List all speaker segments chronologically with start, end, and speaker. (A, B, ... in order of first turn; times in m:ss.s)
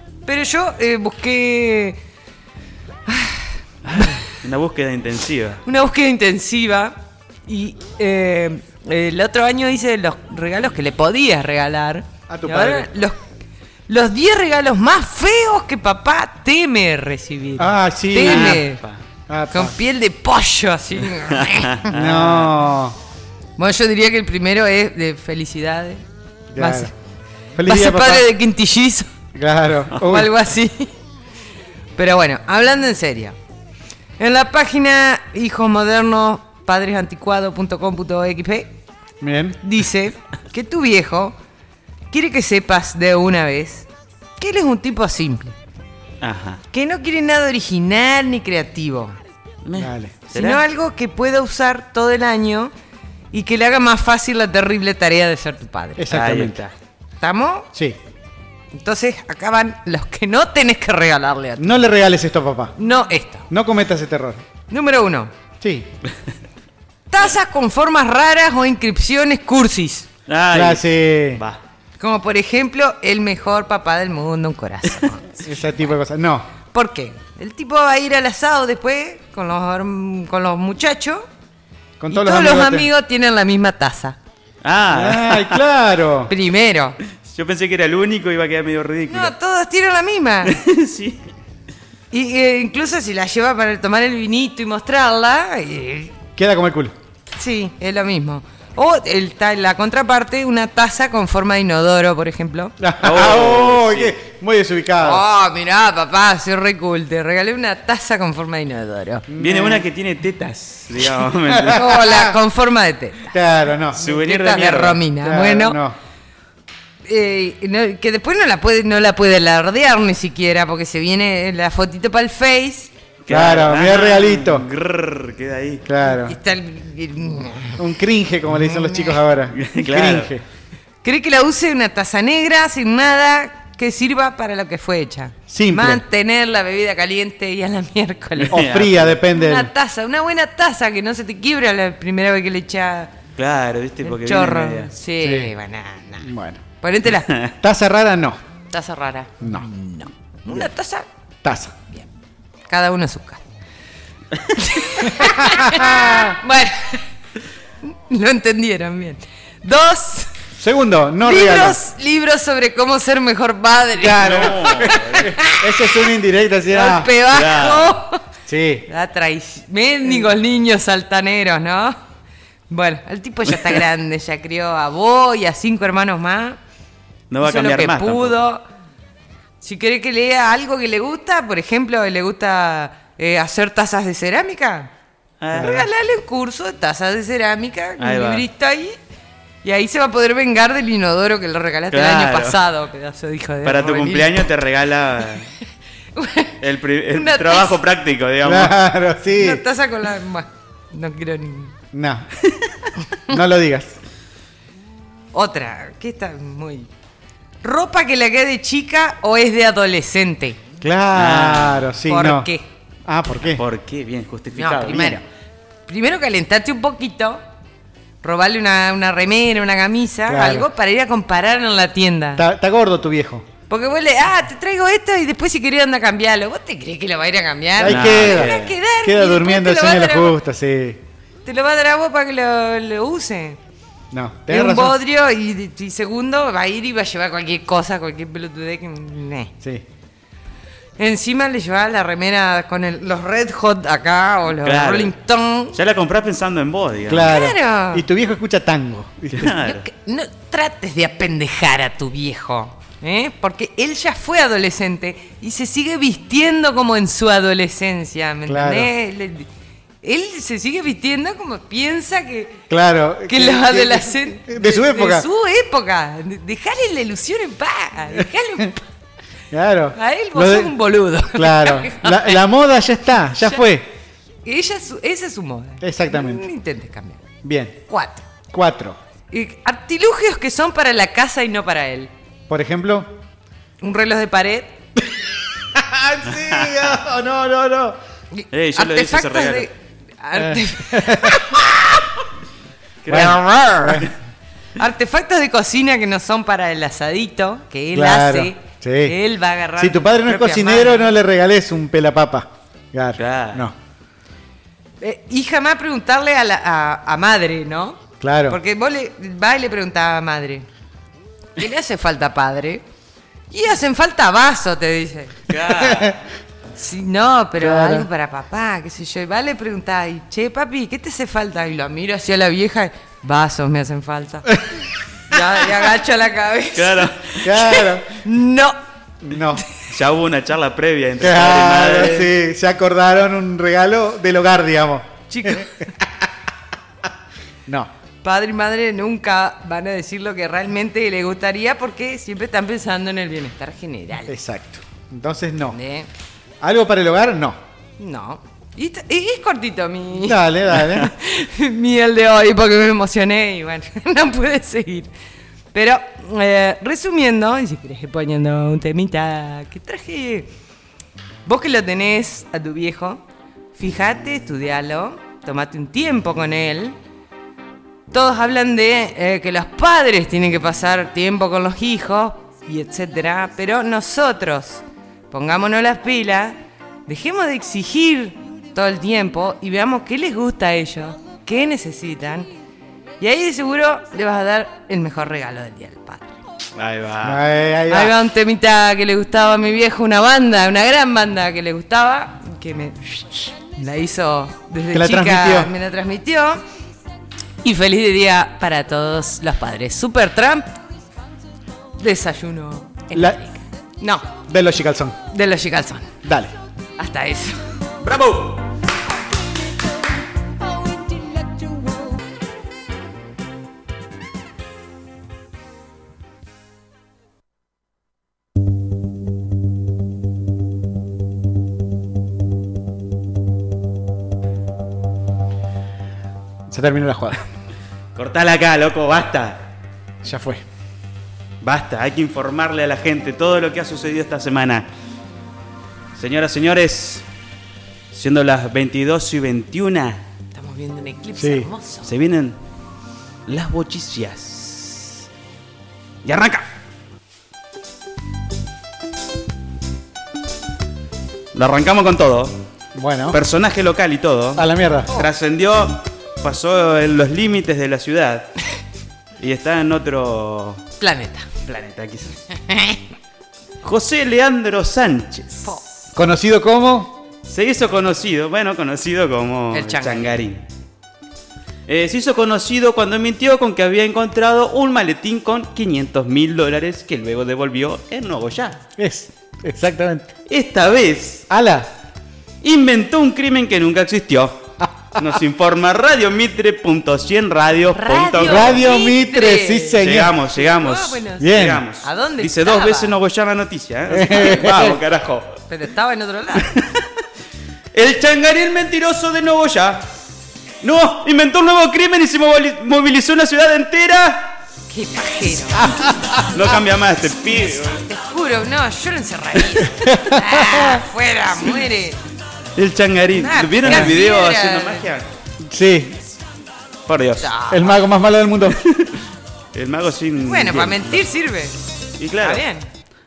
0:00.2-0:02.0 A
0:03.1-0:04.3 A
0:03.9-0:05.6 B
0:05.6-0:13.2 A
0:12.3-0:12.9 C
0:13.9-0:18.8 A
0:17.6-0:18.6 C
0:18.2-0:19.0 B
0:19.3-0:19.7 C
0:19.5-0:21.8 A
0:21.3-0:22.6 B
0:21.9-0:23.0 C
0:23.6-0:26.0 A
0:26.5-0:26.9 C
0:26.6-0:26.9 A
0:27.6-0:28.3 C
0:27.6-0:29.1 A
0:29.3-0:30.3 C
0:30.0-0:30.9 A
0:32.0-0:33.4 A
0:34.2-0:38.8 A
0:39.2-0:39.6 C
0:39.6-0:41.4 A
0:42.1-0:45.6 A
0:46.2-0:46.6 B
0:46.7-0:49.2 A
0:49.6-0:50.6 B
0:49.8-0:50.2 C
0:50.3-0:52.7 A
0:53.3-0:56.1 A
0:56.0-0:56.6 C
0:56.1-0:56.7 B
0:57.2-0:57.7 A
0:58.7-1:01.9 A
1:01.6-1:02.7 C
1:02.8-1:03.5 A
1:03.5-1:04.4 C
1:04.7-1:05.3 A
1:05.6-1:05.9 C
1:07.1-1:10.1 A
1:10.3-1:11.6 B
1:10.5-1:11.4 C
1:12.0-1:15.5 A
1:15.4-1:16.5 C
1:16.7-1:21.3 A
1:22.0-1:22.9 C
1:22.1-1:24.2 A
1:24.6-1:25.6 B
1:24.9-1:26.3 C
1:26.3-1:27.0 A
1:27.2-1:29.3 B
1:29.1-1:30.6 A
1:30.4-1:31.3 B
1:32.1-1:36.1 A
1:36.4-1:36.9 C
1:37.4-1:42.7 A
1:42.8-1:45.2 C
1:43.0-1:44.2 B
1:45.0-1:49.2 A
1:49.3-1:49.9 C
1:49.4-1:52.0 B
1:51.5-1:52.4 C
1:51.7-1:53.3 A
1:53.3-1:54.0 C
1:54.0-1:55.0 B
1:54.0-1:55.8 A
1:55.2-1:56.0 C
1:57.0-2:02.9 A
2:03.2-2:05.8 B
2:03.3-2:04.7 C
2:05.8-2:06.4 C
2:06.2-2:07.8 A
2:07.8-2:10.4 C
2:08.7-2:09.2 A
2:09.5-2:10.3 B
2:11.0-2:18.6 A
2:15.5-2:16.0 C
2:18.4-2:19.2 B
2:18.5-2:19.7 C
2:19.3-2:23.1 A
2:23.4-2:24.9 B
2:24.0-2:26.3 A
2:25.2-2:25.5 C
2:26.2-2:26.6 C
2:26.8-2:27.4 A
2:27.3-2:27.5 B
2:27.6-2:28.4 C
2:28.7-2:31.1 A
2:29.4-2:29.7 C
2:31.4-2:31.8 C
2:32.7-2:33.4 A
2:34.5-2:37.0 A
2:35.1-2:36.4 C
2:37.8-2:40.3 A
2:40.6-2:41.8 C
2:41.2-2:45.7 A
2:44.0-2:47.1 C
2:44.2-2:45.3 B
2:46.7-2:48.2 A
2:47.3-2:48.0 B
2:48.5-2:48.9 C
2:48.9-2:52.0 A
2:52.7-2:56.6 A
2:57.3-2:58.4 B
2:57.4-2:58.7 A
2:59.6-3:04.9 A
3:05.4-3:05.8 B
3:05.5-3:09.0 A
3:08.0-3:08.4 B
3:09.6-3:14.5 A
3:11.9-3:12.6 B
3:13.6-3:15.5 B
3:16.2-3:16.6 A
3:16.6-3:18.8 B
3:17.1-3:17.8 A
3:18.4-3:19.6 C
3:19.3-3:21.7 A
3:21.9-3:22.3 C
3:23.3-3:24.0 C
3:25.3-3:26.9 A
3:27.6-3:30.6 A
3:30.8-3:32.5 C
3:31.1-3:31.9 B
3:32.1-3:32.7 A
3:33.1-3:33.6 C
3:33.6-3:35.2 B
3:34.6-3:35.2 A
3:34.9-3:35.2 C
3:35.9-3:37.4 A
3:38.2-3:42.4 A
3:40.3-3:40.7 C
3:42.4-3:43.5 C
3:43.7-3:50.4 A
3:47.8-3:51.0 C
3:47.8-3:48.7 B
3:51.4-3:53.6 A
3:54.1-3:55.0 C
3:54.5-3:59.5 A
4:01.0-4:05.8 A
4:04.6-4:05.2 B
4:05.7-4:07.3 B
4:07.1-4:09.6 C
4:07.2-4:08.0 A
4:09.3-4:09.8 B
4:09.6-4:19.5 A
4:18.5-4:18.9 C
4:20.0-4:22.6 A
4:22.7-4:25.3 C
4:23.3-4:28.8 A
4:29.5-4:30.8 C
4:30.0-4:32.4 A
4:31.3-4:33.9 C
4:34.4-4:37.2 A
4:35.8-4:36.5 C
4:37.4-4:37.8 C
4:37.9-4:38.3 A
4:38.5-4:39.0 C
4:39.3-4:42.1 A
4:42.5-4:43.1 C
4:43.8-4:44.8 A
4:45.2-4:48.0 C
4:46.3-4:46.9 B
4:48.3-4:52.1 A
4:48.5-4:49.7 B
4:50.4-4:51.5 C
4:53.0-4:54.1 B
4:53.1-4:54.1 C
4:54.8-5:01.2 A
4:57.9-4:59.2 C
4:59.8-5:03.7 C
5:03.2-5:03.7 B
5:05.0-5:10.7 A
5:08.2-5:08.6 C
5:11.6-5:12.8 A
5:13.5-5:15.4 A
5:15.5-5:16.2 B
5:15.7-5:16.2 C
5:16.8-5:24.6 A
5:17.6-5:18.1 C
5:25.3-5:28.8 A
5:26.8-5:27.4 B
5:27.4-5:28.1 C
5:29.2-5:29.6 C
5:29.9-5:32.4 B
5:31.2-5:36.3 C
5:35.3-5:35.9 A
5:38.2-5:44.3 A
5:44.3-5:45.8 C
5:45.7-5:46.1 A
5:46.6-5:47.6 C
5:48.0-5:55.1 A
5:50.1-5:51.1 C
5:55.7-6:00.5 A
6:01.4-6:03.2 A
6:03.8-6:07.0 A
6:08.1-6:22.5 A
6:23.2-6:26.4 A
6:26.8-6:27.4 B
6:27.2-6:28.1 C
6:27.9-6:36.6 A
6:34.9-6:35.7 C
6:37.6-6:40.8 A
6:42.0-6:44.3 A
6:43.1-6:43.4 C
6:44.5-6:45.2 C
6:45.3-6:46.1 A
6:46.2-6:46.5 C
6:47.0-6:47.7 A
6:48.0-6:48.6 B
6:51.0-6:51.9 A
7:06.7-7:07.4 C
7:08.2-7:09.6 B
7:10.2-7:10.6 C
7:11.6-7:14.9 B
7:16.2-7:17.2 B
7:18.1-7:20.2 B
7:20.5-7:22.1 A
7:21.4-7:21.7 C
7:22.0-7:22.6 B
7:23.5-7:25.2 B
7:26.2-7:26.7 B
7:31.5-7:32.6 B
7:33.0-7:33.4 C
7:33.3-7:38.6 B
7:34.6-7:35.1 C
7:39.4-7:40.8 B
7:41.0-7:41.5 A
7:41.6-7:42.4 B
7:42.5-7:43.0 A
7:43.8-7:45.7 B
7:46.2-7:47.2 C
7:47.5-7:50.6 B
7:49.7-7:50.4 A
7:51.9-7:58.8 B
7:59.0-8:00.3 C
8:00.5-8:01.5 B
8:01.5-8:01.9 C
8:02.6-8:08.9 B
8:07.9-8:10.0 A
8:08.4-8:10.4 C
8:10.0-8:15.6 B
8:10.6-8:13.2 A
8:11.4-8:11.8 C
8:14.1-8:15.0 C
8:15.7-8:16.7 A
8:16.6-8:17.1 B
8:17.9-8:20.1 B
8:20.8-8:24.6 B
8:24.9-8:26.1 A
8:26.4-8:28.1 B
8:27.9-8:32.2 A
8:30.0-8:31.0 C
8:32.8-8:35.3 B
8:33.4-8:35.1 A
8:33.9-8:34.1 C
8:35.6-8:36.2 C
8:37.1-8:37.5 B
8:37.4-8:38.0 A
8:37.7-8:38.8 C
8:38.7-8:39.2 B
8:39.7-8:41.2 B
8:40.5-8:41.8 A
8:42.2-8:42.6 B
8:42.4-8:42.9 A